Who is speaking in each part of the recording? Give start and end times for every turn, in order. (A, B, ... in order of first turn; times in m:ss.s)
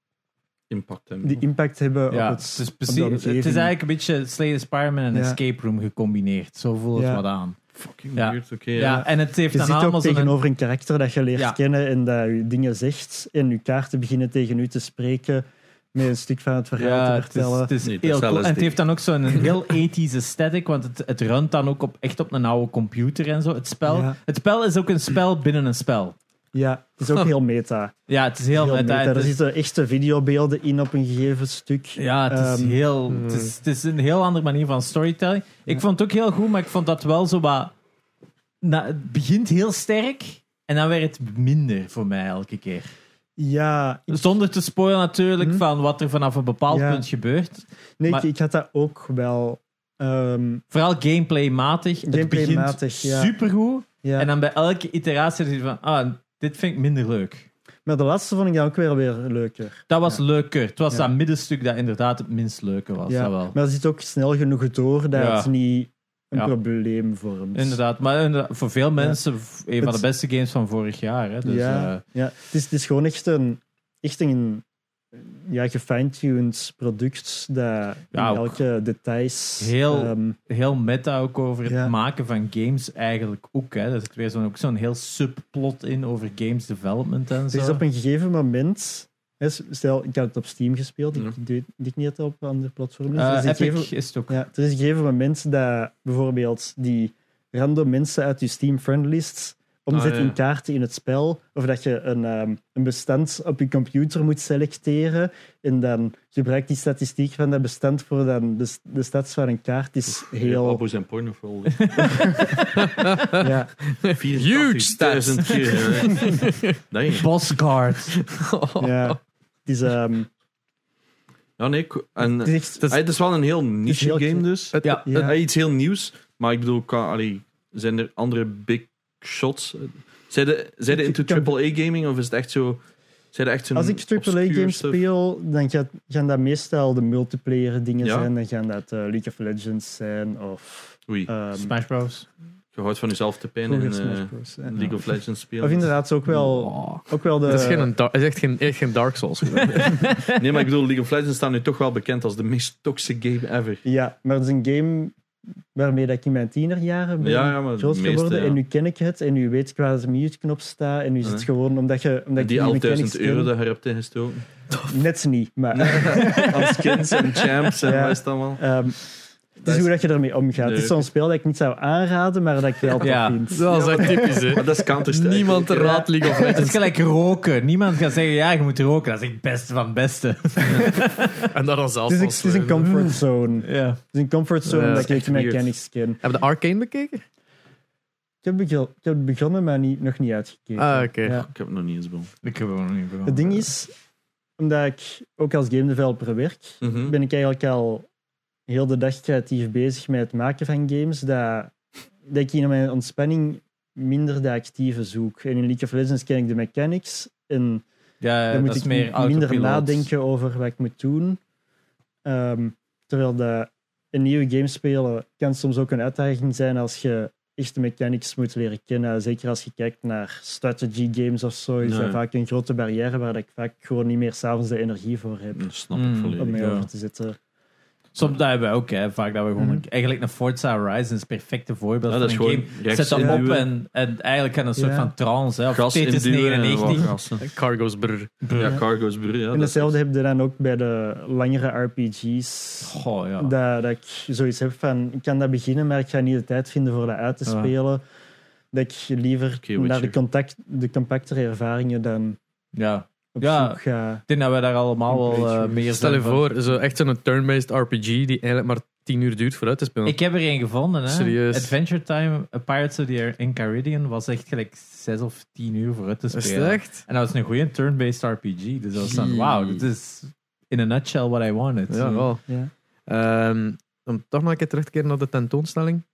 0:00.7-0:01.4 A
0:01.2-0:03.7 B
0:02.1-0:07.6 C
0:05.1-0:05.4 B
0:06.9-0:07.2 B
0:07.7-0:09.0 A
0:08.1-0:10.4 C
0:08.8-0:17.7 B
0:16.8-0:26.2 C
0:17.8-0:18.8 A
0:23.9-0:24.2 B
0:26.5-0:27.9 B
0:28.1-0:29.3 C
0:28.5-0:32.8 B
0:32.0-0:37.7 C
0:33.1-0:33.5 D
0:38.6-0:42.9 C
0:43.4-0:44.3 B
0:44.1-0:48.2 C
0:46.7-0:47.0 B
0:48.0-0:50.6 B
0:50.7-0:57.5 C
0:52.0-0:53.3 B
0:54.0-0:54.3 B
0:57.8-1:00.2 B
0:59.9-1:03.6 C
1:03.1-1:07.8 B
1:05.1-1:05.5 C
1:07.5-1:12.0 C
1:11.4-1:20.4 B
1:18.1-1:18.6 C
1:19.6-1:27.8 C
1:21.7-1:21.9 B
1:27.5-1:50.8 B
1:33.1-1:34.4 C
1:39.9-1:40.3 A
1:50.2-1:52.5 A
1:51.8-1:52.7 C
1:52.3-1:52.6 B
1:52.8-1:56.8 D
1:53.4-1:53.7 B
1:54.1-1:57.3 A
1:57.1-1:58.2 C
1:58.2-1:59.2 D
1:58.8-2:00.3 B
2:01.6-2:12.8 A
2:02.4-2:03.0 B
2:03.8-2:04.4 B
2:04.7-2:05.0 D
2:04.8-2:05.3 C
2:05.0-2:05.4 B
2:10.9-2:11.5 B
2:13.3-2:15.0 A
2:13.7-2:21.7 B
2:18.0-2:18.3 A
2:21.5-2:22.3 C
2:22.7-2:25.9 A
2:23.7-2:25.0 B
2:25.6-2:27.9 B
2:26.7-2:30.1 D
2:29.7-2:30.4 C
2:30.2-2:33.8 A
2:33.8-2:35.1 B
2:35.7-2:43.5 B
2:37.2-2:38.6 A
2:42.4-2:44.4 A
2:44.9-2:46.8 B
2:45.7-2:48.6 A
2:47.8-2:49.0 B
2:49.6-2:49.9 A
2:49.6-2:54.5 B
2:50.6-2:51.0 A
2:53.0-2:53.4 C
2:53.5-2:56.9 D
2:53.6-2:56.0 A
2:55.8-2:56.1 B
2:56.5-3:01.4 C
3:01.3-3:03.0 D
3:02.1-3:06.2 B
3:03.6-3:04.0 C
3:04.6-3:05.2 D
3:04.9-3:05.7 A
3:06.2-3:07.2 D
3:08.4-3:11.5 B
3:10.8-3:11.4 D
3:11.5-3:12.3 A
3:12.4-3:13.6 C
3:13.2-3:13.9 B
3:14.6-3:18.0 B
3:16.8-3:17.2 A
3:18.7-3:21.7 B
3:22.2-3:27.8 B
3:28.2-3:30.1 C
3:28.5-3:31.4 B
3:32.2-3:45.7 B
3:41.8-3:42.2 A
3:45.5-3:46.6 A
3:45.9-3:46.9 C
3:46.4-3:47.4 B
3:48.1-3:57.1 C
3:49.6-3:49.8 B
3:52.1-3:53.7 A
3:53.2-3:53.4 B
3:54.8-3:55.1 B
3:55.7-3:57.4 A
3:57.4-3:58.3 D
3:58.4-3:58.8 C
3:58.6-3:59.9 A
3:59.5-4:08.0 B
4:02.8-4:03.5 C
4:07.4-4:07.7 C
4:08.7-4:12.4 B
4:09.6-4:10.1 A
4:12.7-4:16.4 C
4:13.3-4:14.2 B
4:15.1-4:16.0 B
4:15.9-4:20.2 D
4:20.0-4:32.3 C
4:21.1-4:21.7 D
4:26.3-4:27.0 D
4:29.0-4:29.8 D
4:31.9-4:32.5 D
4:33.1-4:36.0 D